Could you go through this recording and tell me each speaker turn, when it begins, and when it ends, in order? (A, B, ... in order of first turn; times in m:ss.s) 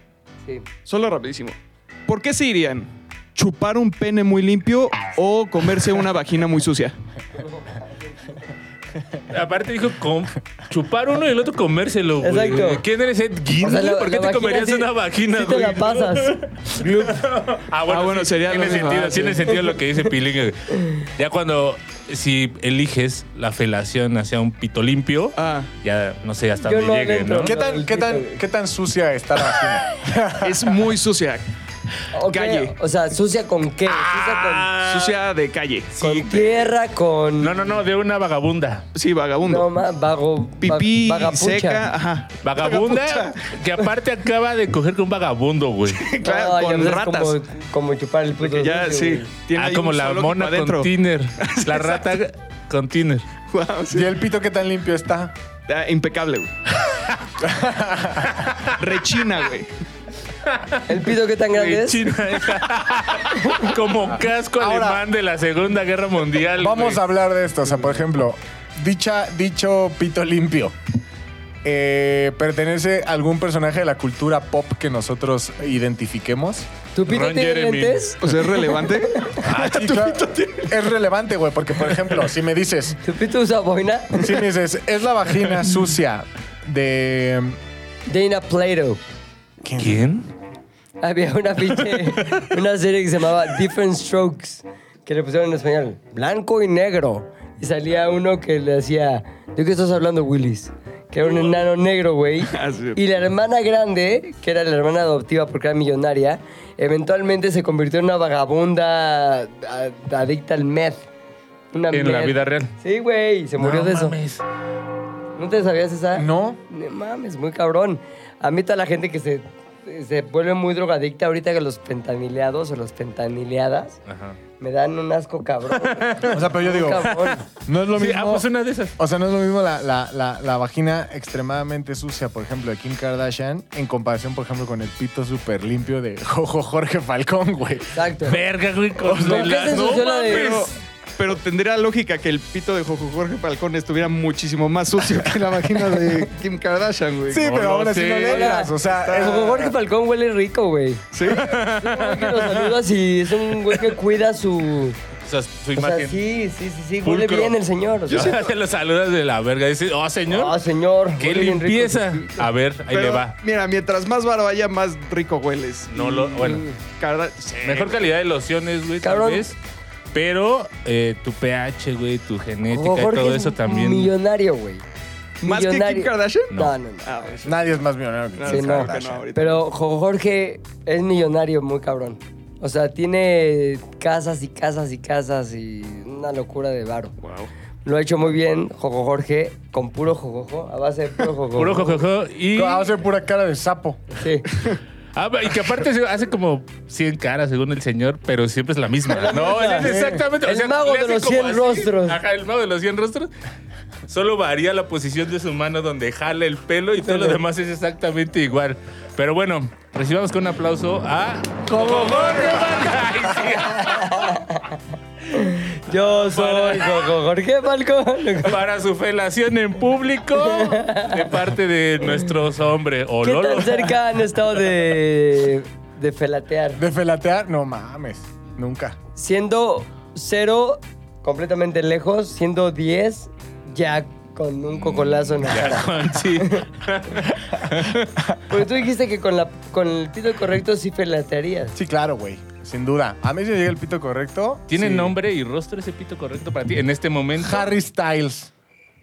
0:00.8-0:06.9 A
0:07.4-0:07.8 B
0:09.3-0:27.6 C
0:12.2-0:12.8 B
0:13.6-0:17.2 B
0:17.9-0:19.8 A
0:25.4-0:25.7 A
0:26.6-0:28.3 B
0:27.4-0:30.8 D
0:30.4-0:31.5 A
0:32.1-0:34.7 B
0:32.3-0:32.7 A
0:33.8-0:35.2 C
0:34.8-0:36.0 A
0:36.0-0:36.6 C
0:36.0-0:37.7 B
0:37.4-0:38.8 C
0:38.9-0:39.7 A
0:39.4-0:41.8 B
0:40.6-0:43.9 A
0:42.4-0:46.1 C
0:45.9-0:47.4 A
0:46.2-0:49.3 B
0:48.4-0:50.9 A
0:49.6-0:53.2 C
0:51.4-0:52.1 A
0:53.5-0:54.2 A
0:53.9-0:55.3 D
0:55.7-0:56.5 A
0:57.4-0:58.3 D
0:58.2-0:58.8 C
0:58.8-0:59.7 A
1:00.4-1:01.0 C
1:00.9-1:02.1 B
1:01.5-1:07.0 C
1:03.4-1:03.7 B
1:04.1-1:05.0 D
1:06.6-1:10.7 D
1:11.6-1:16.7 D
1:16.9-1:18.3 B
1:17.1-1:18.1 C
1:18.2-1:20.8 A
1:19.1-1:19.4 B
1:19.4-1:23.0 D
1:21.9-1:22.2 A
1:23.0-1:24.2 B
1:24.1-1:27.6 D
1:28.1-1:29.0 B
1:29.6-1:30.0 D
1:29.8-1:30.3 C
1:31.0-1:51.1 B
1:41.2-1:41.6 A
1:42.4-1:43.0 A
1:51.7-1:54.2 B
1:51.9-1:52.7 C
1:53.6-1:54.4 C
1:55.4-2:04.0 B
1:56.2-1:56.6 D
2:04.1-2:04.4 C
2:04.6-2:07.4 B
2:05.7-2:07.4 C
2:06.3-2:18.0 D
2:07.9-2:09.0 C
2:17.9-2:18.4 B
2:18.2-2:20.7 C
2:19.0-2:19.6 D
2:19.2-2:20.5 B
2:20.2-2:29.7 A
2:25.0-2:26.3 D
2:27.3-2:29.6 D
2:27.5-2:28.3 C
2:28.3-2:31.1 B
2:31.1-2:31.6 A
2:31.3-2:32.7 C
2:31.8-2:35.0 B
2:35.2-2:36.2 C
2:35.7-2:38.4 B
2:37.0-2:37.5 C
2:38.1-2:40.6 C
2:40.3-2:42.5 B
2:41.2-2:43.3 C
2:42.9-2:48.1 A
2:45.9-2:46.6 C
2:46.3-2:46.8 B
2:47.6-2:49.6 C
2:49.0-2:49.4 B
2:50.1-2:54.1 C
2:52.7-2:54.8 B
2:55.4-2:56.5 A
2:55.4-2:57.3 B
2:57.0-2:57.5 A
2:57.4-2:59.3 D
2:58.4-2:59.6 A
2:58.5-3:07.1 B
3:07.2-3:07.5 A
3:07.8-3:12.0 B
3:11.6-3:12.9 C
3:12.5-3:14.0 D
3:14.2-3:14.5 B
3:15.1-3:23.3 C
3:19.1-3:22.2 B
3:19.8-3:20.2 D
3:24.1-3:34.4 C
3:27.0-3:27.4 B
3:31.7-3:33.0 D
3:33.8-3:34.8 B
3:35.3-3:38.6 B
3:35.4-3:37.1 C
3:38.4-3:44.0 C
3:40.4-3:41.3 B
3:43.2-3:46.8 B
3:46.8-3:49.0 D
3:49.2-3:56.7 B
3:54.8-3:58.1 C
3:58.5-4:01.8 B
4:01.7-4:05.1 D
4:04.7-4:07.7 C
4:07.4-4:08.5 D